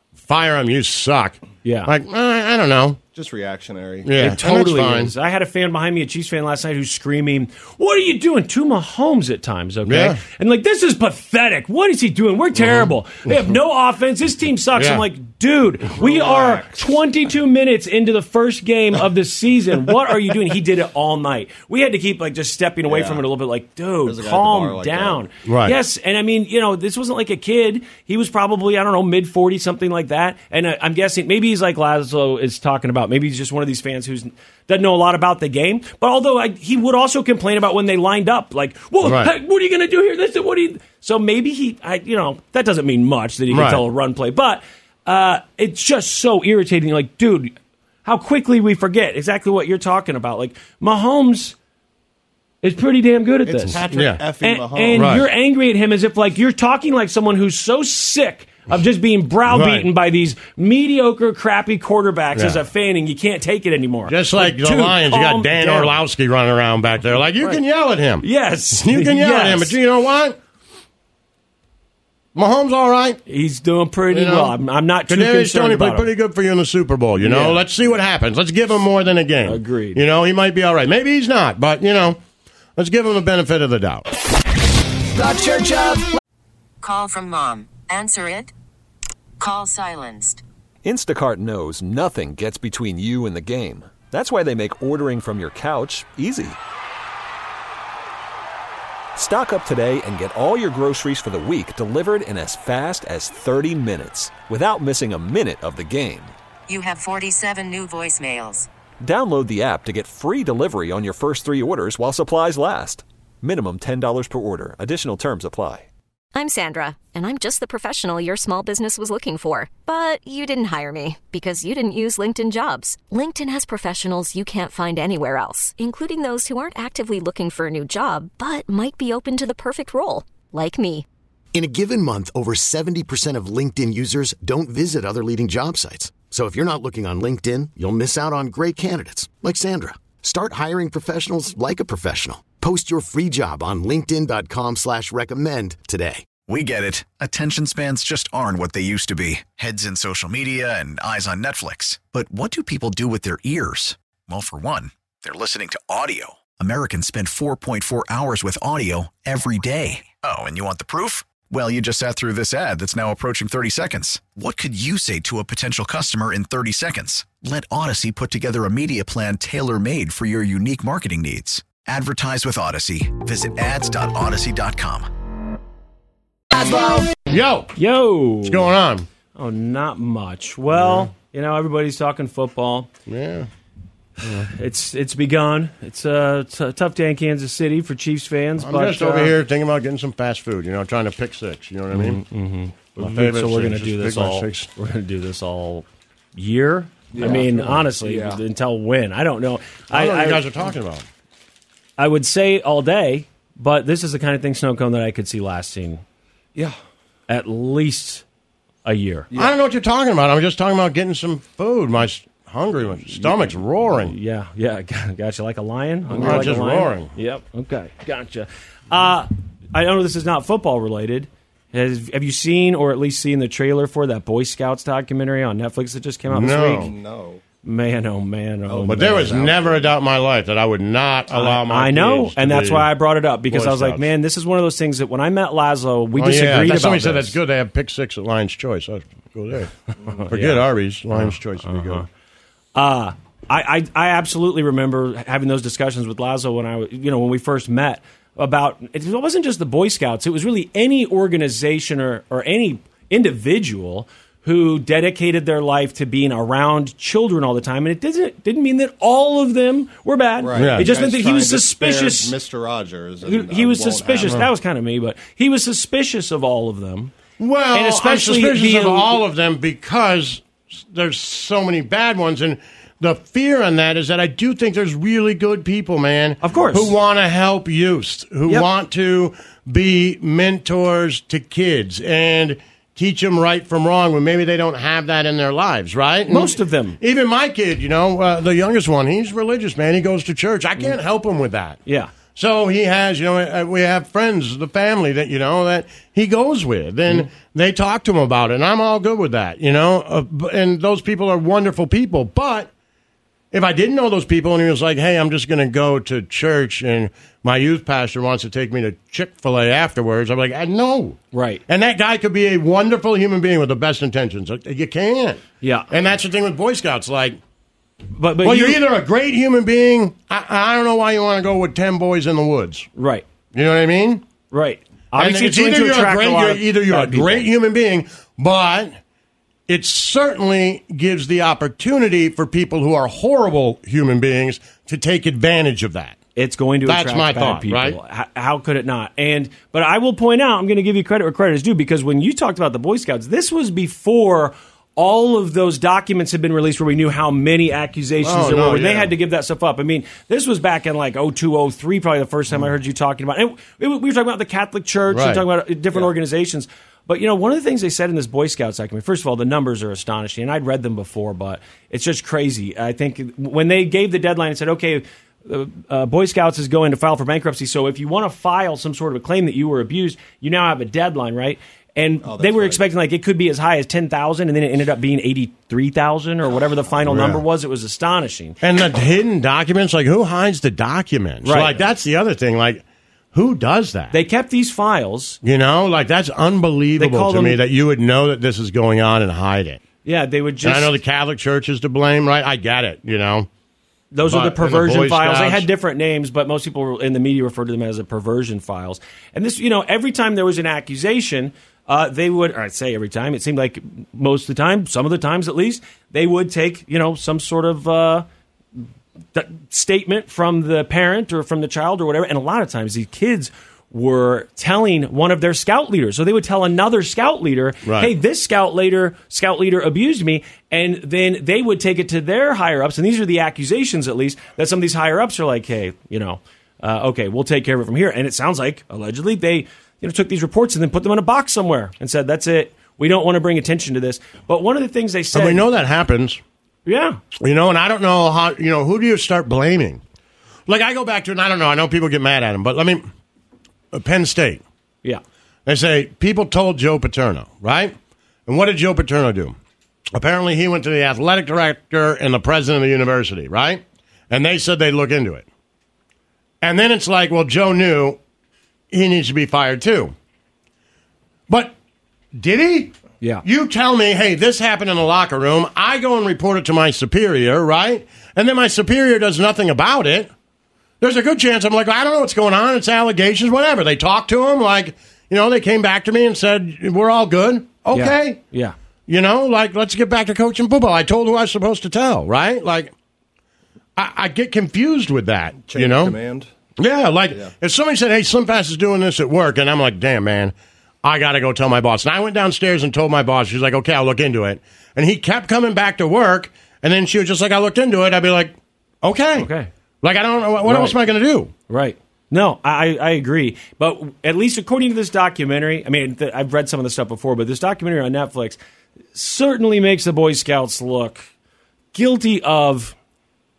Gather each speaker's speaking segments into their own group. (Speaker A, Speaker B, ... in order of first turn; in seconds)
Speaker A: 0.2-3.0, 4.0-5.1, 9.8-10.2, 12.6-13.3, 14.8-15.0, 25.4-25.7, 39.0-39.3, 43.5-43.8, 53.9-54.2, 54.9-55.2, 59.5-59.9, 62.4-62.6, 64.1-68.2, 68.8-70.3, 72.3-73.2, 74.1-74.5, 75.1-82.2, 82.8-84.1, 177.3-177.7, 178.4-179.1, 180.8-181.1, 183.1-183.5, 188.6-192.2, 193.0-194.7, 199.9-201.1, 209.3-214.1, 216.1-217.1, 226.3-226.9, 228.9-232.9, 233.5-234.0, 236.2-239.7, 240.3-242.0, 260.5-260.9, 267.4-291.8, 292.3-302.7, 303.5-317.4, 318.4-322.9, 323.5-324.2, 325.2-328.9, 329.7-336.2, 336.9-338.0, 348.2-349.1, 355.1-355.4, 377.1-377.4, 378.6-382.8, 383.3-384.1, 385.4-389.8, 390.6-393.5, 394.2-395.7, 417.9-418.1, 435.3-436.4, 437.4-440.0, 440.7-443.1, 443.9-444.6, 445.6-447.9, 448.5-449.6, 450.1-455.5, 456.6-458.2, 458.9-460.1, 461.5-461.7, 462.3-462.9, 463.4-470.3, 471.0-478.4, 479.1-482.9, 483.9-486.2, 486.8-499.5, 500.0-501.5
Speaker B: 1.6-1.9, 4.2-47.5, 48.0-51.5, 52.6-53.8, 54.4-66.0, 68.2-69.8, 73.3-76.1, 77.2-77.6, 79.5-80.0, 177.8-178.6, 179.3-182.9, 184.2-189.3, 191.9-200.4, 202.0-206.0, 207.3-208.2, 208.8-209.3, 213.1-226.9, 227.6-229.6, 231.3-237.3, 240.1-242.0, 242.7-262.3, 263.2-267.1, 267.7-269.2, 276.4-276.9, 286.3-287.0, 291.9-292.1, 311.3-311.6, 315.6-315.9, 318.1-318.8, 322.9-323.2, 324.5-327.5, 336.4-378.6, 381.4-381.8, 384.1-385.4, 387.0-387.6, 390.0-390.9, 394.1-408.2, 409.3-435.6, 436.9-437.2, 477.9-478.7, 499.4-499.7, 500.6-501.0, 501.7-508.6, 509.1-511.3, 511.9-512.9
Speaker C: 3.1-4.1, 15.9-16.8, 22.9-23.2, 24.0-25.2, 53.5-55.1, 197.1-198.4, 226.8-227.4, 228.7-229.8, 260.4-264.4, 372.2-372.8, 485.7-486.5
Speaker D: 85.2-86.1, 86.8-88.5, 89.4-90.4, 106.7-108.7
Speaker E: 90.8-96.6, 99.2-106.3, 109.0-115.9
Speaker F: 116.3-131.1
Speaker G: 131.5-146.3
Speaker H: 146.4-175.1